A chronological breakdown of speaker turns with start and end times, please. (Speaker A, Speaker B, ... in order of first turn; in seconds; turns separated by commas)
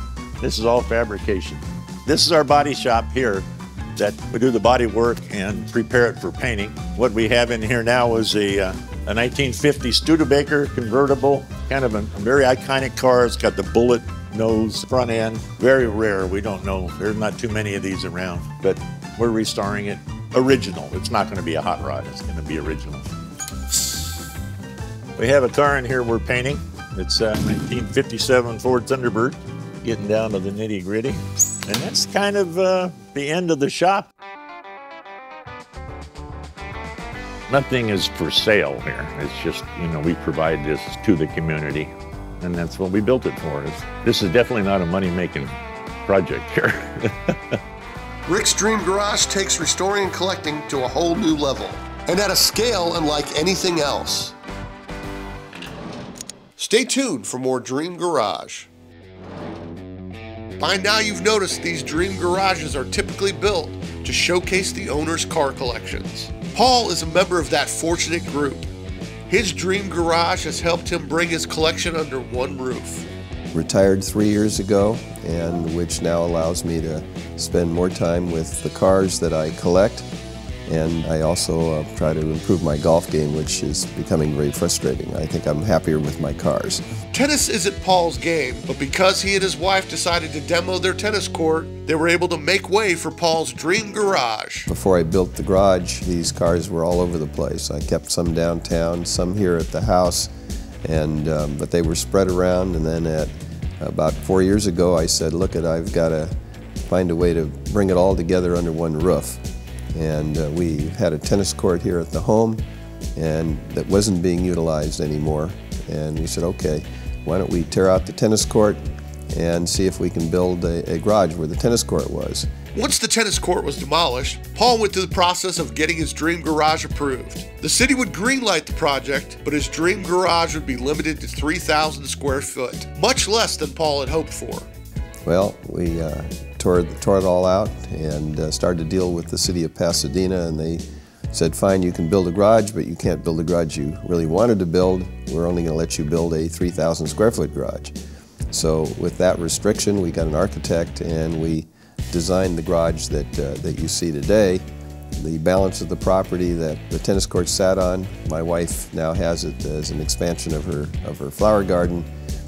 Speaker A: 0.4-23.1, Speaker A: 25.2-34.1, Speaker A: 37.5-45.5, Speaker A: 46.0-47.6, Speaker B: 48.2-54.3, Speaker B: 56.6-58.7, Speaker B: 60.6-68.6, Speaker B: 69.3-73.1, Speaker C: 73.5-80.1, Speaker C: 80.7-86.8, Speaker B: 87.1-94.7, Speaker C: 94.7-100.3, Speaker C: 100.8-106.3, Speaker C: 106.9-112.6, Speaker C: 113.2-122.5, Speaker B: 122.7-134.7, Speaker C: 135.2-147.9, Speaker C: 148.5-154.6, Speaker C: 155.1-162.1